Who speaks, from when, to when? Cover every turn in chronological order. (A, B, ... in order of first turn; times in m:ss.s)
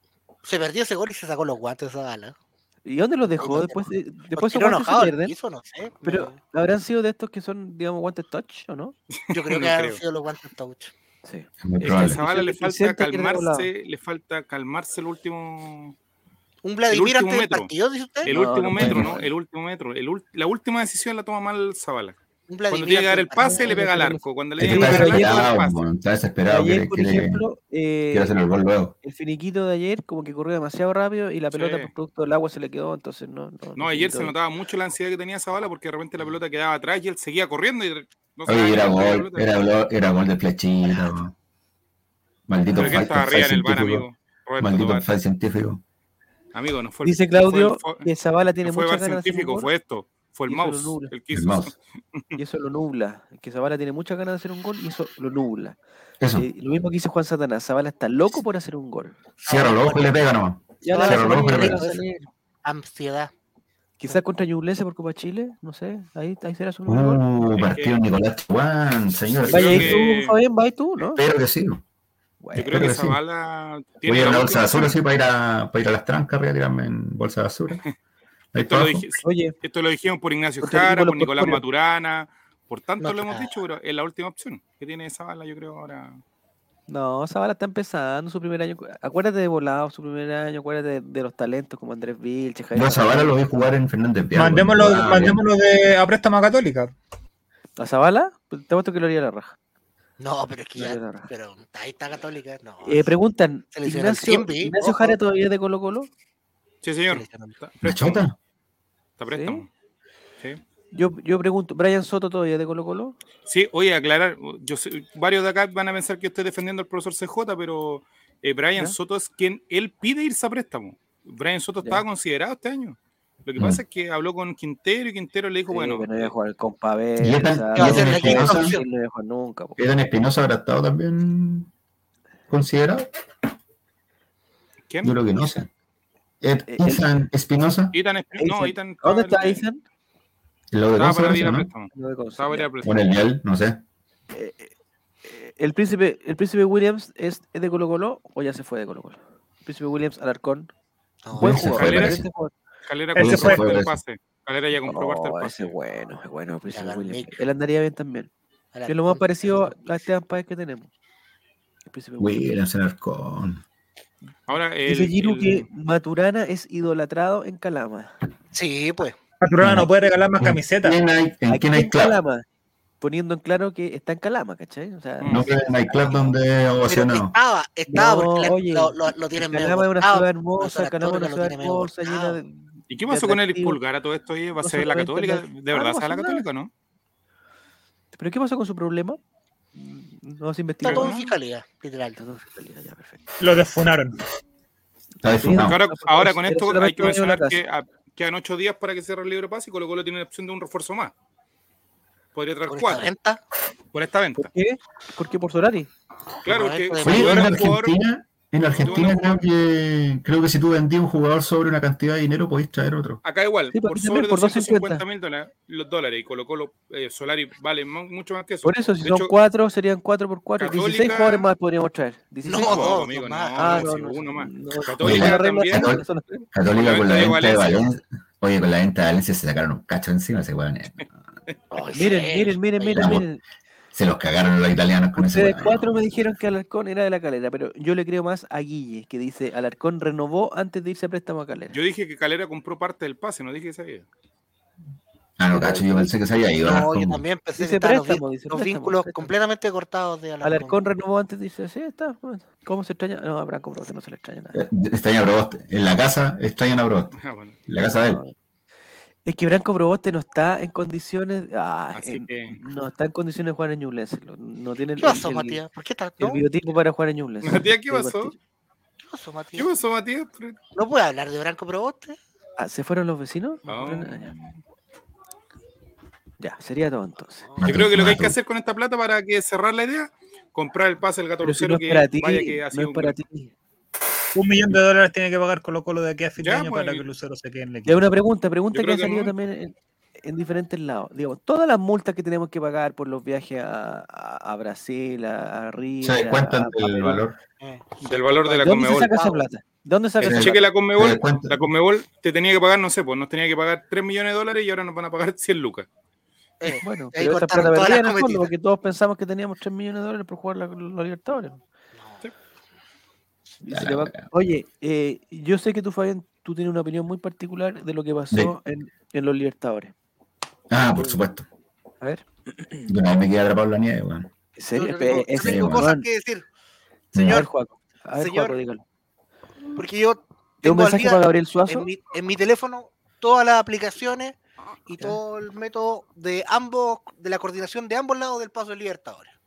0:00.4-0:02.3 A
0:02.8-0:05.3 B
0:03.4-0:06.4 A
0:06.0-0:08.9 B
0:09.1-0:10.0 C
0:09.3-0:10.9 A
0:11.2-0:13.7 B
0:11.6-0:12.2 D
0:11.8-0:16.0 C
0:16.6-0:18.3 A
0:16.9-0:17.7 C
0:18.2-0:22.2 C
0:18.3-0:19.3 B
0:18.8-0:19.2 D
0:22.5-0:23.9 A
0:22.7-0:25.8 C
0:23.3-0:25.5 B
0:24.6-0:27.4 D
0:26.5-0:28.4 B
0:28.1-0:28.9 D
0:29.0-0:34.3 B
0:31.5-0:31.9 C
0:33.8-0:39.6 C
0:38.5-0:41.3 D
0:40.9-0:41.1 A
0:42.5-0:44.0 D
0:42.7-0:43.1 B
0:42.8-0:45.1 C
0:44.6-0:45.8 D
0:46.5-0:48.1 C
0:47.0-0:49.7 B
0:48.6-0:52.4 C
0:50.5-0:51.1 B
0:51.3-0:51.7 D
0:52.4-0:55.8 B
0:56.2-0:56.4 D
0:56.3-0:59.2 B
0:59.4-1:00.2 A
0:59.4-1:01.8 D
1:00.8-1:02.2 B
1:00.9-1:02.0 A
1:02.6-1:03.3 A
1:04.0-1:07.2 B
1:06.9-1:10.0 D
1:07.5-1:08.0 C
1:09.3-1:10.4 C
1:09.5-1:11.2 B
1:11.1-1:11.8 D
1:12.4-1:12.9 B
1:12.5-1:13.2 D
1:12.6-1:14.9 C
1:14.0-1:17.8 D
1:18.5-1:19.0 D
1:18.6-1:26.2 C
1:19.2-1:19.5 B
1:20.6-1:21.6 B
1:23.0-1:23.6 A
1:26.9-1:33.5 B
1:32.7-1:35.4 D
1:34.3-1:36.9 E
1:37.8-1:39.5 B
1:40.2-1:43.1 A
1:40.8-1:41.3 B
1:42.8-1:46.1 B
1:43.7-1:45.2 A
1:46.8-1:48.2 C
1:47.1-1:47.5 A
1:47.8-1:48.4 D
1:49.2-1:49.7 C
1:49.3-1:49.6 B
1:50.9-1:53.2 B
1:53.4-2:06.3 C
2:05.7-2:09.8 B
2:07.2-2:08.8 D
2:07.8-2:08.8 A
2:09.8-2:11.7 D
2:12.5-2:13.1 D
2:14.9-2:15.2 C
2:15.0-2:15.7 D
2:16.4-2:18.0 D
2:16.7-2:17.1 B
2:17.9-2:19.6 C
2:18.4-2:19.8 B
2:20.7-2:21.7 D
2:21.0-2:23.0 C
2:21.9-2:22.7 B
2:22.8-2:23.8 D
2:24.3-2:24.7 B
2:25.2-2:30.7 B
2:31.2-2:31.7 A
2:31.3-2:32.5 B
2:31.3-2:32.2 D
2:31.6-2:32.2 C
2:32.8-2:35.7 C
2:33.2-2:33.7 E
2:33.2-2:34.0 D
2:34.8-2:38.3 B
2:36.7-2:37.4 A
2:38.7-2:39.2 A
2:38.9-2:40.9 B
2:41.9-2:42.5 B
2:42.2-2:43.6 D
2:44.5-2:45.7 C
2:44.8-2:48.1 B
2:48.5-2:49.2 A
2:49.4-2:51.0 E
2:49.6-2:49.9 D
2:50.4-2:52.2 D
2:51.5-2:52.4 B
2:53.0-2:55.4 B
2:55.2-2:55.5 C
2:55.3-2:57.3 D
2:55.9-2:56.3 A
2:56.9-3:02.4 A
2:57.9-3:03.8 B
3:02.9-3:06.7 C
3:04.6-3:06.4 B
3:08.1-3:09.2 B
3:09.7-3:11.1 B
3:10.8-3:12.2 A
3:10.8-3:11.3 C
3:12.2-3:13.3 B
3:13.4-3:14.2 E
3:15.2-3:15.8 D
3:15.3-3:17.6 B
3:15.5-3:21.1 C
3:22.3-3:23.1 C
3:22.7-3:23.4 A
3:23.9-3:24.5 C
3:24.4-3:25.9 B
3:26.4-3:27.9 C
3:26.4-3:27.6 A
3:27.0-3:33.2 D
3:28.8-3:29.4 C
3:33.2-3:39.3 C
3:33.7-3:35.0 B
3:38.6-3:43.0 B
3:40.6-3:41.5 C
3:42.4-3:43.9 A
3:42.6-3:45.9 C
3:43.6-3:46.5 B
3:45.0-3:51.1 D
3:46.7-3:47.9 C
3:51.7-3:52.6 A
3:51.7-3:53.4 B
3:52.8-3:53.2 D
3:53.9-3:55.9 D
3:55.2-4:01.8 B
4:01.7-4:04.1 C
4:05.4-4:07.2 D
4:05.5-4:06.1 B
4:06.6-4:10.8 A
4:07.6-4:09.3 B
4:10.4-4:14.6 B
4:14.5-4:17.2 D
4:17.2-4:17.6 C
4:17.7-4:18.2 D
4:18.0-4:18.3 B
4:19.2-4:25.6 B
4:21.9-4:22.6 C
4:25.0-4:26.4 A
4:26.2-4:28.4 B
4:27.4-4:28.3 C
4:29.1-4:29.7 A
4:29.6-4:30.6 C
4:30.7-4:32.2 A
4:32.6-4:34.3 B
4:33.7-4:34.6 C
4:36.4-4:37.5 B
4:37.6-4:38.4 D
4:37.6-4:43.2 C
4:41.4-4:43.5 B
4:44.3-4:48.0 E
4:46.4-4:47.0 C
4:47.8-4:57.2 B
4:48.7-4:49.3 C
4:56.0-4:57.4 D
4:58.0-4:59.1 C
4:58.4-5:00.6 B
4:59.1-4:59.4 A
5:00.2-5:01.6 D
5:00.3-5:05.9 C
5:06.6-5:08.5 A
5:06.7-5:11.6 B
5:12.0-5:12.2 A
5:13.6-5:19.9 B
5:13.7-5:14.2 D
5:20.7-5:21.5 D
5:22.9-5:24.3 D
5:24.6-5:26.0 B
5:24.7-5:26.4 A
5:25.4-5:25.9 D
5:27.1-5:27.4 D
5:27.2-5:27.4 A
5:27.2-5:28.8 B
5:28.2-5:28.6 A
5:29.8-5:39.3 A
5:30.6-5:31.9 B